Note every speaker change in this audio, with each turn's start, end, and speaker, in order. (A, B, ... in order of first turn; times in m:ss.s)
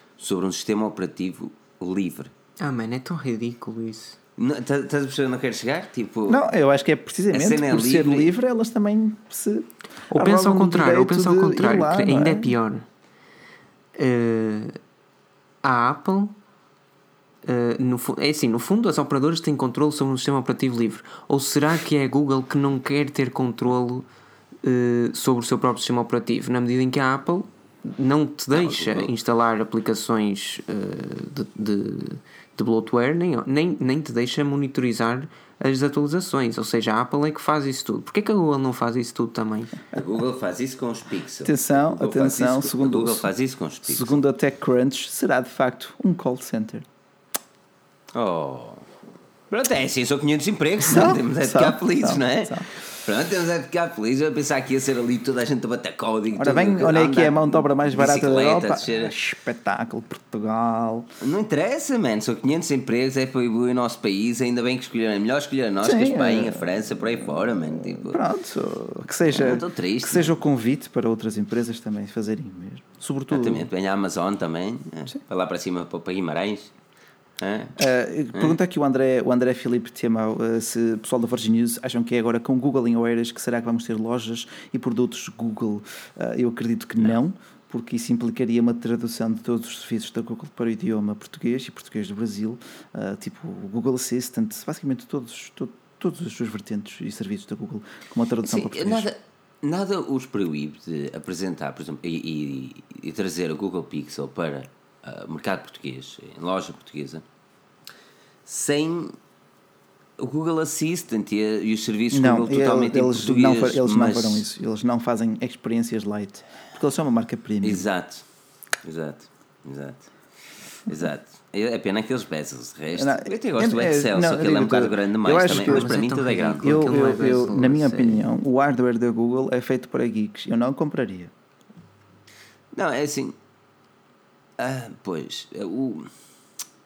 0:00.2-0:02.3 A
0:02.6-0:04.2 B
0:04.4-0:06.4 A
0:06.3-0:12.6 C
0:07.3-0:08.4 A
0:10.1-0:12.9 B
0:14.0-0:14.8 B
0:15.6-0:16.3 B
0:17.4-0:24.1 B
0:24.6-0:39.8 B
0:28.5-0:29.1 A
0:39.9-0:44.2 A
0:41.4-0:43.3 C
0:43.9-0:46.9 C
0:48.1-0:48.8 A
0:49.5-0:59.1 A
0:50.8-0:52.7 C
0:56.3-1:01.1 C
1:01.2-1:08.2 A
1:05.8-1:06.9 C
1:07.4-1:13.7 C
1:09.3-1:10.4 A
1:13.3-1:16.7 A
1:17.4-1:17.8 A
1:17.8-1:39.1 C
1:38.4-1:47.2 A
1:48.5-1:49.2 A
1:50.2-1:54.5 A
1:52.1-1:57.9 C
1:57.6-1:58.2 A
1:58.8-2:00.1 A
2:00.9-2:06.9 A
2:03.0-2:06.0 C
2:05.5-2:08.2 B
2:06.6-2:11.3 C
2:12.7-2:13.4 A
2:14.6-2:16.1 A